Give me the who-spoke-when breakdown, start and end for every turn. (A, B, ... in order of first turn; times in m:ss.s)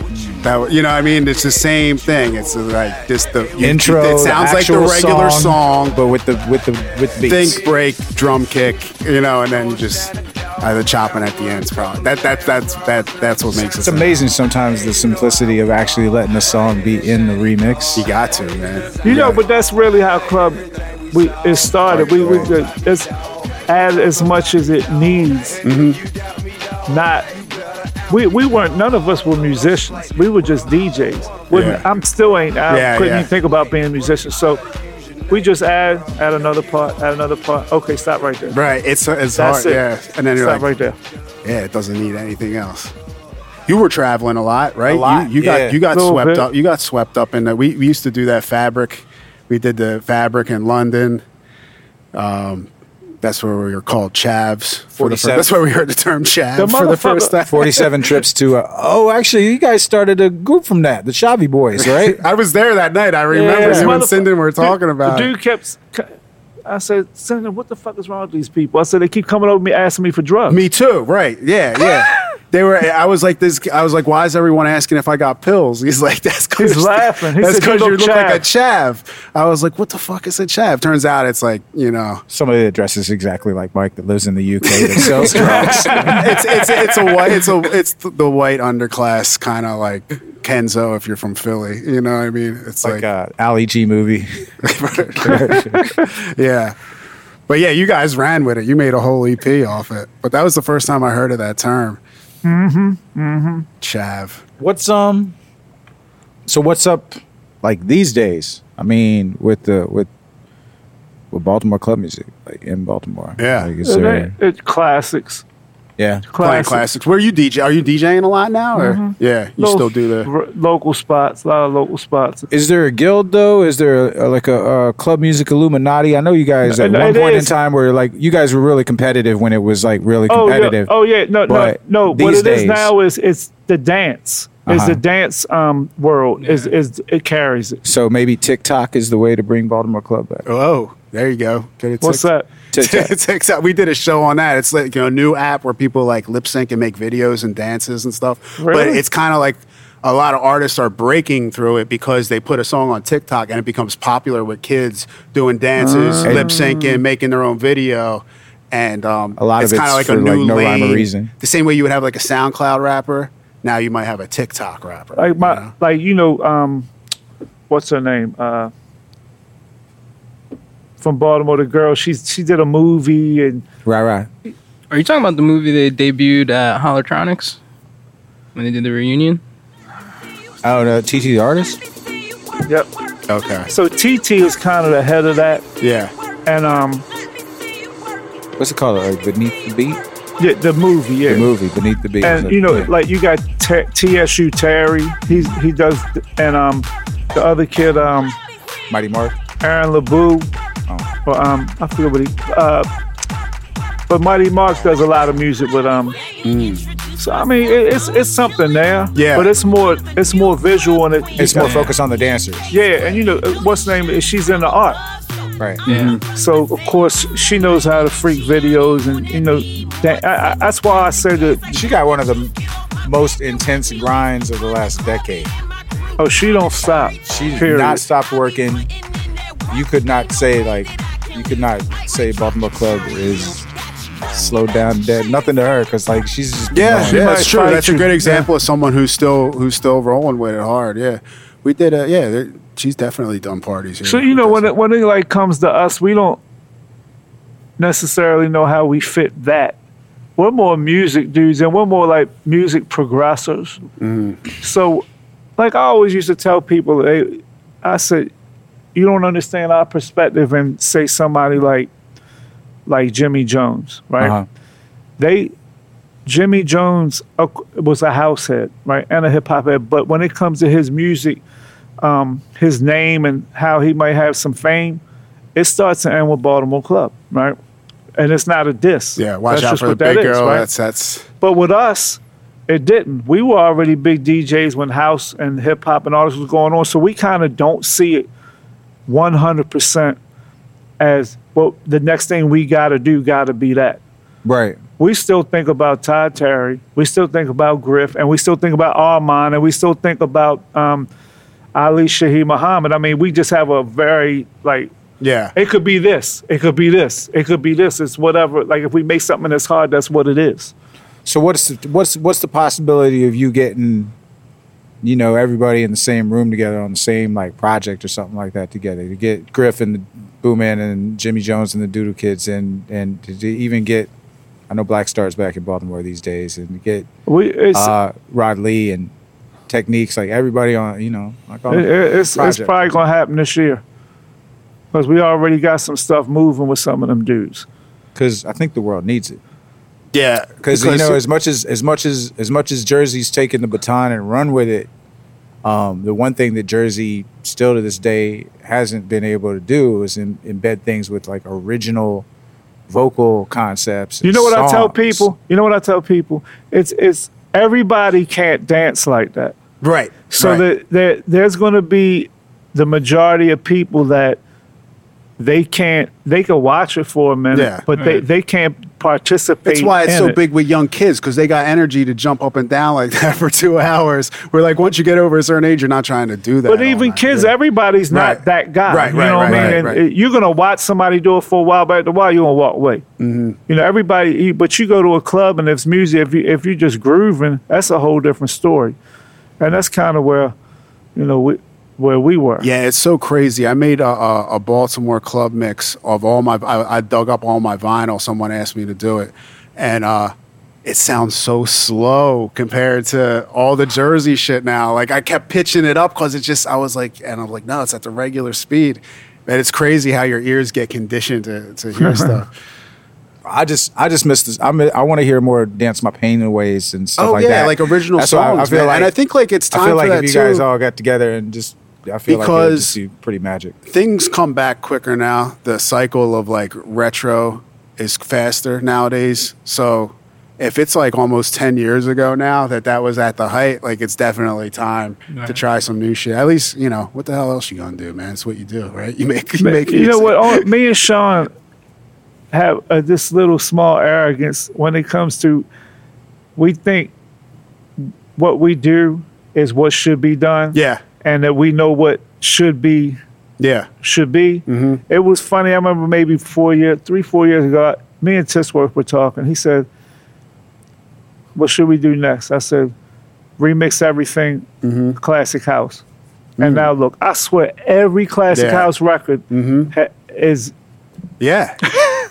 0:00.1-0:00.5 A
0:00.4-0:05.9 B
0:03.6-0:07.6 A
0:07.3-0:14.1 B
0:13.6-0:18.1 A
0:18.0-0:19.4 B
0:19.0-0:23.1 C
0:21.9-0:22.5 A
0:23.7-0:25.6 C
0:25.6-0:26.0 B
0:26.9-0:27.3 C
0:28.1-0:34.6 C
0:31.5-0:31.8 B
0:32.7-0:33.3 B
0:35.3-0:38.6 C
0:38.5-0:40.7 B
0:39.4-0:41.0 C
0:41.4-0:42.9 B
0:43.7-0:51.2 B
0:44.9-0:45.8 A
0:45.9-0:46.5 C
0:52.1-0:52.7 B
0:53.2-0:57.8 B
0:55.0-0:55.5 A
0:56.6-0:57.4 C
0:57.5-1:02.2 A
1:01.8-1:05.3 B
1:03.3-1:06.2 C
1:03.5-1:04.0 A
1:06.7-1:10.6 C
1:10.5-1:22.2 B
1:16.6-1:18.4 C
1:22.3-1:26.4 A
1:24.6-1:33.0 B
1:25.2-1:27.4 C
1:32.8-1:34.5 A
1:34.6-1:36.8 B
1:35.1-1:35.9 A
1:37.5-1:42.0 B
1:42.4-1:43.7 C
1:43.8-1:44.4 B
1:44.6-1:45.4 A
1:46.5-1:50.1 A
1:51.3-1:54.3 A
1:53.4-1:53.7 B
1:53.8-1:55.4 C
1:56.0-1:56.3 A
1:56.3-1:56.8 C
1:56.4-2:00.3 B
1:58.8-2:02.5 C
2:02.5-2:10.9 A
2:06.6-2:07.5 C
2:10.3-2:17.8 C
2:11.5-2:12.9 A
2:14.7-2:15.0 A
2:16.4-2:16.7 D
2:17.8-2:20.5 A
2:20.5-2:45.7 B
2:22.0-2:22.5 C
2:22.7-2:23.1 A
2:28.6-2:29.0 C
2:35.8-2:37.0 C
2:36.2-2:36.5 A
2:39.4-2:41.3 A
2:45.2-2:46.9 C
2:47.7-2:48.7 C
2:51.0-2:53.6 C
2:53.8-2:54.3 A
2:54.9-2:57.6 D
2:58.6-2:59.4 D
3:00.6-3:01.8 A
3:03.3-3:03.7 B
3:03.7-3:05.6 C
3:05.8-3:06.1 B
3:06.5-3:07.1 C
3:08.6-3:10.0 A
3:10.4-3:11.5 C
3:11.3-3:12.9 A
3:12.2-3:18.4 C
3:18.9-3:19.4 A
3:19.6-3:20.5 C
3:21.3-3:22.9 C
3:24.1-3:26.2 C
3:26.4-3:26.9 B
3:27.2-3:31.9 C
3:29.2-3:29.5 B
3:31.4-3:32.7 A
3:31.6-3:31.9 D
3:32.7-3:35.0 C
3:35.6-3:35.8 A
3:35.9-3:36.2 D
3:35.9-3:36.2 B
3:36.2-3:41.8 C
3:41.7-3:45.5 A
3:46.2-3:48.0 C
3:47.2-3:48.9 A
3:49.7-3:53.7 A
3:54.2-3:57.3 A
3:56.7-4:04.7 B
3:57.0-3:58.5 C
4:04.0-4:06.4 C
4:07.8-4:09.8 C
4:10.4-4:13.8 C
4:14.0-4:14.4 B
4:14.6-4:15.1 C
4:15.6-4:18.3 C
4:19.0-4:21.9 C
4:22.9-4:24.4 C
4:24.2-4:24.5 A
4:25.2-4:25.5 C
4:26.3-4:31.4 C
4:32.0-4:35.0 C
4:35.6-4:37.6 C
4:38.2-4:40.7 C
4:39.2-4:41.3 B
4:41.4-4:48.3 C
4:49.1-4:50.2 C
4:51.0-4:54.0 C
4:54.4-4:54.8 A
4:55.0-5:01.1 C
5:01.8-5:04.9 C
5:05.2-5:05.5 B
5:05.6-5:10.7 C
5:11.2-5:14.1 A
5:15.0-5:24.1 A
5:24.7-5:27.1 A
5:27.3-5:27.9 C
5:27.7-5:29.1 A
5:29.7-5:32.8 A
5:31.7-5:33.8 C
5:34.9-5:37.7 C
5:38.2-5:39.4 A
5:40.1-5:41.2 B
5:40.6-5:44.9 A
5:45.6-5:52.3 A
5:52.9-5:55.3 A
5:54.2-5:59.6 C
5:59.8-6:00.6 B
6:00.3-6:04.4 C
6:05.4-6:10.4 C
6:07.5-6:07.8 B
6:07.9-6:08.2 D
6:09.7-6:17.5 B
6:16.7-6:23.0 C
6:18.1-6:20.0 B
6:19.5-6:19.8 A
6:23.2-6:23.6 B
6:23.7-6:29.0 C
6:29.6-6:30.6 C
6:31.2-6:32.7 C
6:32.6-6:40.3 B
6:40.8-6:52.5 B
6:52.0-6:52.3 C
6:53.4-6:59.1 A
6:57.2-7:00.6 B
6:59.7-7:03.8 A
7:02.3-7:03.0 B
7:03.9-7:20.7 B
7:15.3-7:15.6 D
7:19.6-7:21.5 C
7:22.5-7:25.7 C
7:26.6-7:27.1 C
7:28.0-7:33.2 C
7:30.7-7:31.0 B
7:33.6-7:33.9 B
7:34.0-7:39.9 C
7:34.7-7:35.0 B
7:41.6-7:42.9 C
7:43.6-7:46.0 C
7:44.8-7:45.2 B
7:46.6-7:46.9 B
7:46.6-7:50.7 C
7:48.5-7:48.9 B
7:49.5-7:49.9 B
7:51.4-7:52.0 B